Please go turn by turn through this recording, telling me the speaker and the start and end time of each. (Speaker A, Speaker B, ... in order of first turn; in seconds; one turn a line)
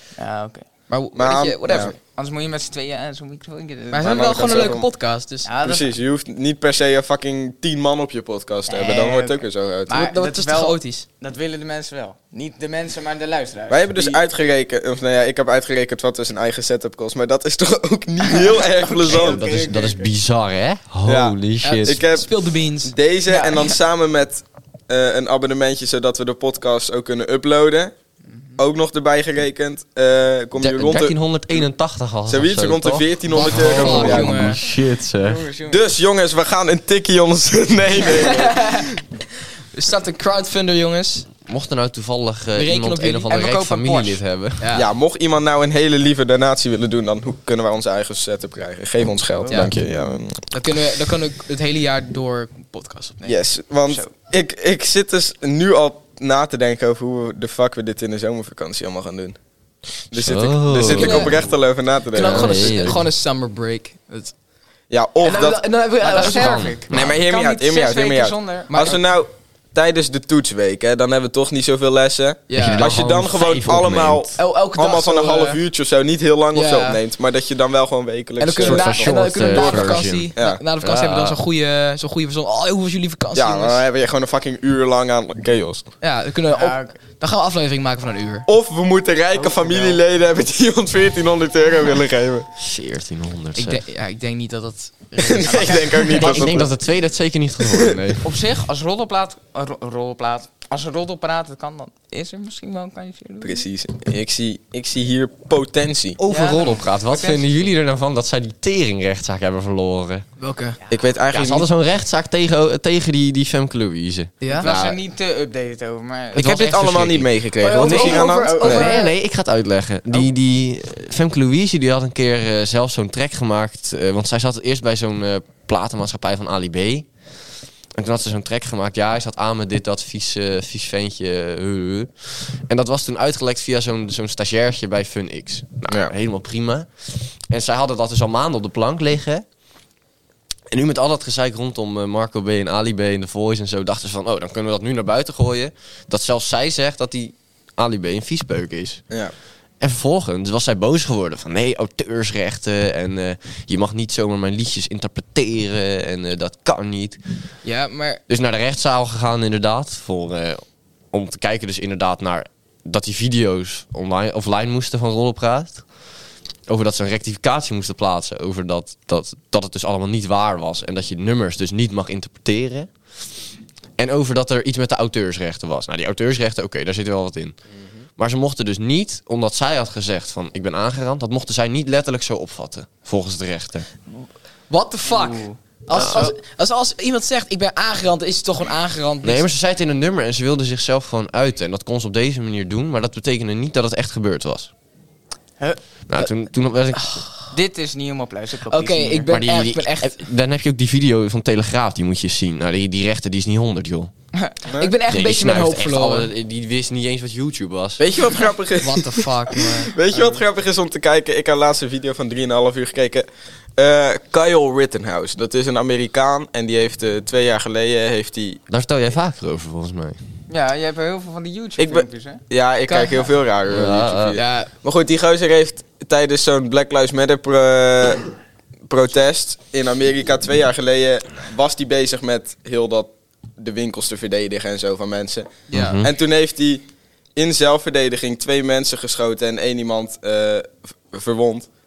Speaker A: 0.2-0.7
Speaker B: 0.9-1.9
Speaker C: 1.1-2.0
Speaker A: 1.8-4.8
Speaker B: 3.9-5.5
Speaker C: 4.0-4.9
Speaker A: 5.4-5.9
Speaker C: 5.6-10.1
Speaker A: 8.7-14.2
Speaker B: 9.9-11.0
Speaker C: 13.7-19.4
Speaker A: 18.2-20.1
Speaker D: 19.1-22.0
Speaker C: 21.1-27.9
Speaker B: 21.6-22.9
Speaker A: 23.3-23.8
Speaker A: 28.3-28.6
Speaker C: 28.6-31.2
Speaker D: 30.6-35.4
Speaker C: 32.3-34.6
Speaker B: 33.3-34.6
Speaker A: 35.2-35.8
Speaker C: 35.7-38.9
Speaker B: 38.0-38.9
Speaker B: 39.7-41.3
Speaker D: 41.5-44.7
Speaker B: 42.5-44.9
Speaker C: 44.7-50.4
Speaker D: 49.5-49.9
Speaker B: 50.5-53.2
Speaker C: 53.2-59.4
Speaker C: 60.1-63.0
Speaker D: 60.1-61.4
Speaker B: 60.8-61.5
Speaker B: 62.1-64.3
Speaker D: 62.1-63.1
Speaker C: 64.9-65.7
Speaker B: 65.2-66.8
Speaker A: 66.0-69.0
Speaker D: 66.2-67.2
Speaker C: 66.9-80.6
Speaker B: 72.5-72.9
Speaker D: 72.5-74.4
Speaker B: 74.4-75.6
Speaker B: 76.5-77.0
Speaker B: 78.4-83.8
Speaker D: 78.6-81.4
Speaker C: 83.3-85.9
Speaker B: 86.0-88.5
Speaker A: 86.5-87.0
Speaker C: 88.5-92.5
Speaker A: 89.3-90.0
Speaker D: 92.6-93.8
Speaker B: 93.6-96.2
Speaker C: 95.2-96.7
Speaker A: 95.4-96.5
Speaker D: 96.2-98.2
Speaker A: 98.2-103.6
Speaker C: 103.4-106.2
Speaker D: 106.2-110.2
Speaker A: 106.3-107.6
Speaker B: 110.4-110.8
Speaker C: 110.9-111.7
Speaker D: 111.3-114.3
Speaker B: 114.4-114.7
Speaker A: 114.5-116.7
Speaker C: 114.6-115.0
Speaker C: 116.3-118.9
Speaker D: 116.3-127.1
Speaker B: 117.6-119.1
Speaker A: 117.8-119.0
Speaker D: 127.9-139.4
Speaker C: 135.9-136.1
Speaker D: 140.7-149.0
Speaker D: 149.8-157.2
Speaker B: 157.6-158.2
Speaker D: 158.3-165.8
Speaker D: 166.7-173.3
Speaker D: 174.0-177.6
Speaker D: 178.2-183.8
Speaker B: 184.7-189.4
Speaker A: 185.1-186.3
Speaker D: 185.9-186.3
Speaker D: 189.2-194.7
Speaker D: 196.1-197.2
Speaker B: 196.9-197.4
Speaker A: 197.5-199.3
Speaker B: 198.7-200.2
Speaker D: 199.3-204.1
Speaker C: 204.7-204.9
Speaker B: 204.8-206.3
Speaker D: 205.1-208.0
Speaker C: 208.0-218.6
Speaker B: 208.8-210.0
Speaker D: 218.7-220.2
Speaker A: 220.5-222.4
Speaker C: 221.8-228.3
Speaker B: 222.9-223.2
Speaker D: 223.7-224.4
Speaker B: 224.3-224.7
Speaker C: 228.9-235.5
Speaker B: 235.7-236.1
Speaker D: 235.7-236.1
Speaker C: 236.0-236.8
Speaker C: 237.4-241.7